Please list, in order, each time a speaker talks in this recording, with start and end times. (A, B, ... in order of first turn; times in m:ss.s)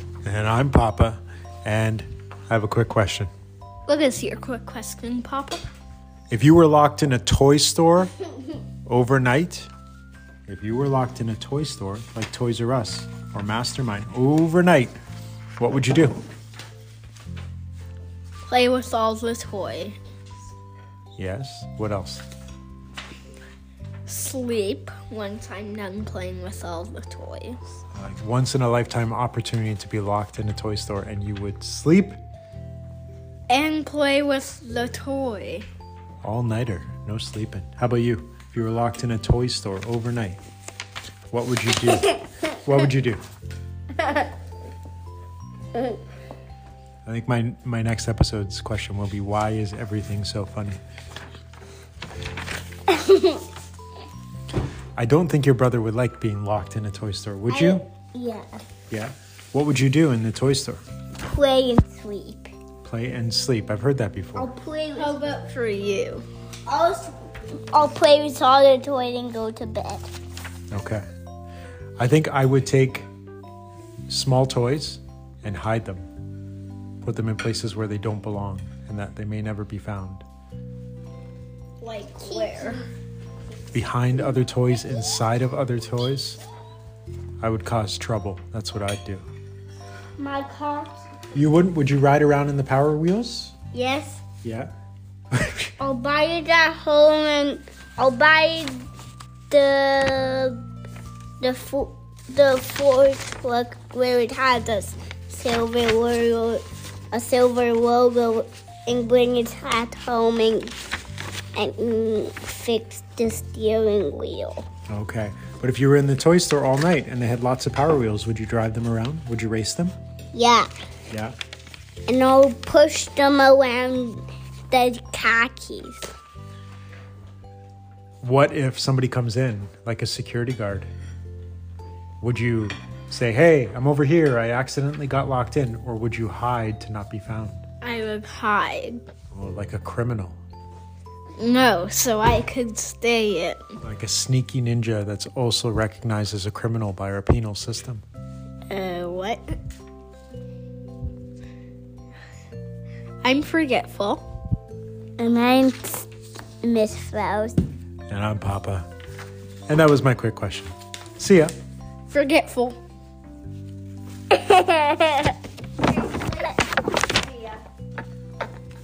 0:00.2-0:03.3 A
0:03.9-0:05.6 B
0:06.3-0:08.1 A
0:08.8-0:09.7 A
0:10.5-0:15.0 A
0:15.6-0:16.2 A
0:18.5-0:20.0 B
0:21.2-0:22.2 A
0:24.0-0:27.6 B
0:27.9-0:32.2 A
0:33.5-0:35.6 B
0:36.2-0:40.4 A
0:41.3-0:43.2 A
0:47.0-0:50.8 A
0:52.9-0:53.4 C
0:55.0-0:57.8 A
0:57.5-0:58.6 C
0:58.9-1:00.8 A
1:01.2-1:02.5 C
1:02.8-1:04.5 A
1:04.4-1:05.2 C
1:04.9-1:06.2 B
1:06.7-1:10.1 C
1:10.7-1:11.0 A
1:12.0-1:13.1 A
1:14.1-1:16.0 A
1:17.0-1:20.2 A
1:21.8-1:22.8 B
1:22.1-1:22.8 C
1:23.7-1:26.4 A
1:27.4-1:29.2 A
1:30.2-1:31.0 C
1:31.3-1:33.5 A
1:33.7-1:34.2 C
1:34.4-1:34.7 A
1:35.3-1:35.7 A
1:35.8-1:38.7 C
1:39.5-1:40.6 C
1:41.4-1:50.7 C
1:51.5-1:54.7 C
1:54.9-1:59.9 A
2:00.3-2:00.7 C
2:01.1-2:01.4 A
2:02.1-2:06.1 C
2:08.2-2:10.9 A
2:12.2-2:17.6 A
2:17.8-2:19.0 B
2:19.3-2:20.4 A
2:21.4-2:23.7 B
2:23.8-2:28.0 A
2:28.7-2:29.6 B
2:33.2-2:34.2 B
2:35.2-2:36.1 C
2:36.6-2:37.6 C
2:38.1-2:38.9 A
2:39.7-2:41.5 A
2:42.1-2:42.8 B
2:45.8-2:47.6 B